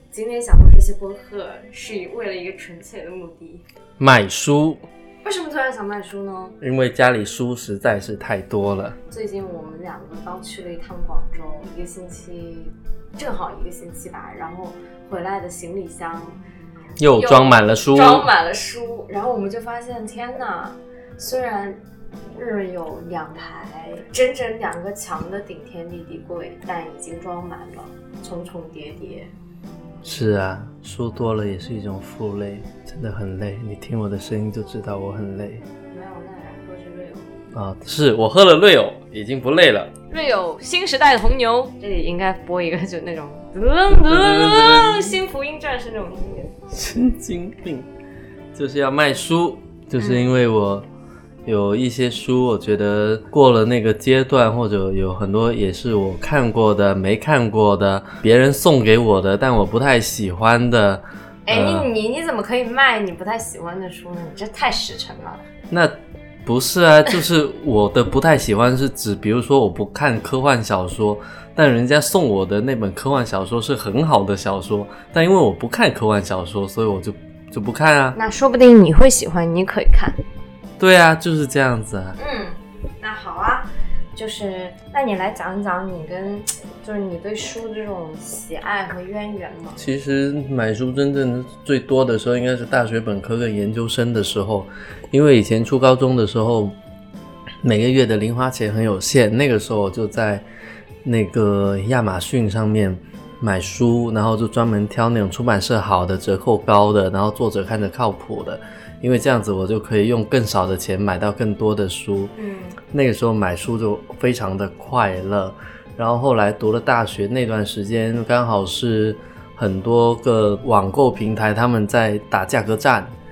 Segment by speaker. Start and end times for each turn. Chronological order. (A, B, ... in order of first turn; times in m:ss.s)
0:00.1-0:03.6 A
0:04.0-0:04.9 B
0:05.2-0:06.6 A
0:06.6-0:09.0 B
0:09.1-0:16.4 A
0:17.0-0:18.3 B
0:17.1-0:21.8 A
0:22.3-0:29.3 A
0:30.0-0:35.6 B
0:35.9-0:37.4 A
0:37.5-0:39.9 B
0:40.1-0:46.5 A
0:43.9-0:45.1 B
0:46.7-0:47.9 B
0:48.5-0:50.8 B
0:50.0-0:50.2 A
0:51.4-1:01.9 B
1:01.4-1:05.4 A
1:05.7-1:18.2 B
1:18.1-1:20.2 A
1:20.8-1:22.2 B
1:22.2-1:29.8 A
1:29.8-1:36.8 B
1:37.6-1:40.4 B
1:41.0-1:52.3 B
1:52.3-1:52.8 A
1:52.9-2:03.1 B